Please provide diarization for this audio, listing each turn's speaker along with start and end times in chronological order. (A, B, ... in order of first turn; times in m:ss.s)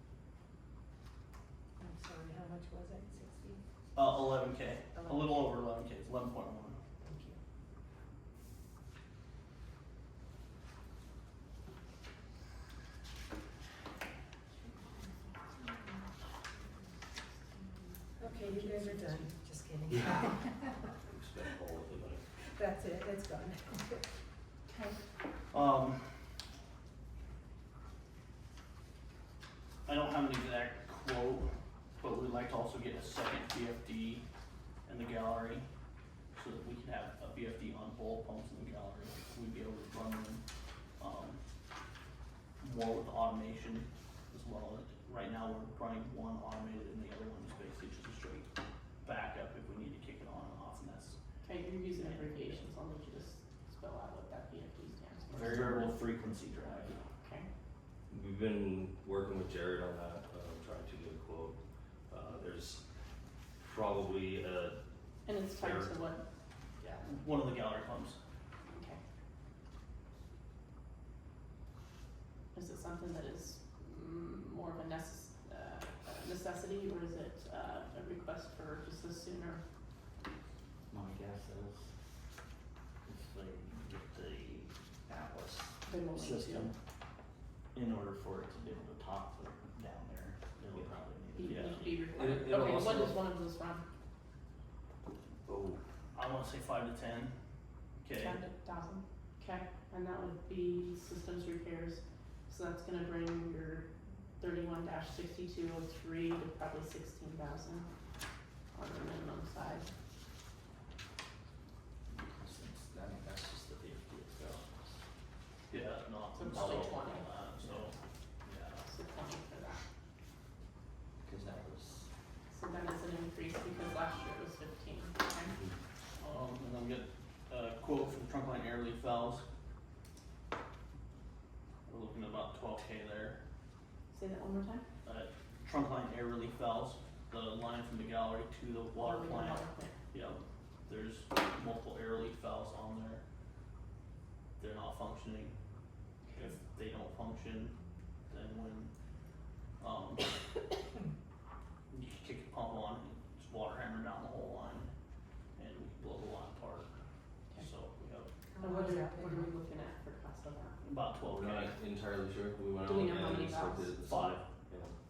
0:01.8-0:03.6 A
0:04.0-0:06.8 B
0:05.0-0:05.4 A
0:07.0-0:07.4 A
0:17.7-0:19.3 C
0:18.2-0:21.0 A
0:21.0-0:22.2 D
0:22.5-0:24.1 A
0:24.7-0:25.0 C
0:25.5-0:26.1 B
0:29.9-0:34.2 B
0:34.9-0:35.6 B
0:36.4-0:40.4 B
0:41.0-0:41.4 B
0:42.6-0:48.5 B
0:49.0-0:51.2 B
0:51.4-0:56.0 C
0:51.9-0:52.7 B
0:55.3-0:57.0 E
0:55.4-0:55.7 B
0:57.1-0:57.5 C
0:58.1-1:01.6 D
1:02.1-1:02.8 D
1:03.6-1:04.8 D
1:05.3-1:06.2 C
1:05.5-1:06.0 D
1:07.0-1:08.2 B
1:08.7-1:09.0 C
1:12.5-1:19.6 C
1:20.9-1:21.9 E
1:23.1-1:26.7 E
1:25.9-1:26.7 C
1:27.8-1:32.0 E
1:31.4-1:33.8 C
1:31.4-1:31.8 B
1:32.1-1:33.2 D
1:35.5-1:35.8 E
1:36.2-1:37.3 B
1:38.0-1:38.4 B
1:38.2-1:43.9 C
1:44.4-1:47.9 C
1:48.7-1:49.9 C
1:52.1-1:54.6 E
1:55.7-1:58.9 B
1:56.4-1:57.3 C
1:58.9-1:59.8 C
2:01.2-2:02.1 E
2:02.5-2:05.5 C
2:06.2-2:09.4 B
2:11.9-2:13.4 B
2:14.1-2:14.9 C
2:15.0-2:23.2 B
2:19.0-2:19.9 C
2:24.6-2:25.6 B
2:26.3-2:27.7 B
2:28.3-2:28.9 B
2:29.8-2:30.3 B
2:31.9-2:34.9 B
2:35.6-2:36.9 B
2:37.6-2:38.3 B
2:38.5-2:39.5 A
2:38.6-2:40.8 C
2:40.8-2:41.7 B
2:41.2-2:45.0 D
2:42.8-2:43.9 C
2:44.0-2:44.5 B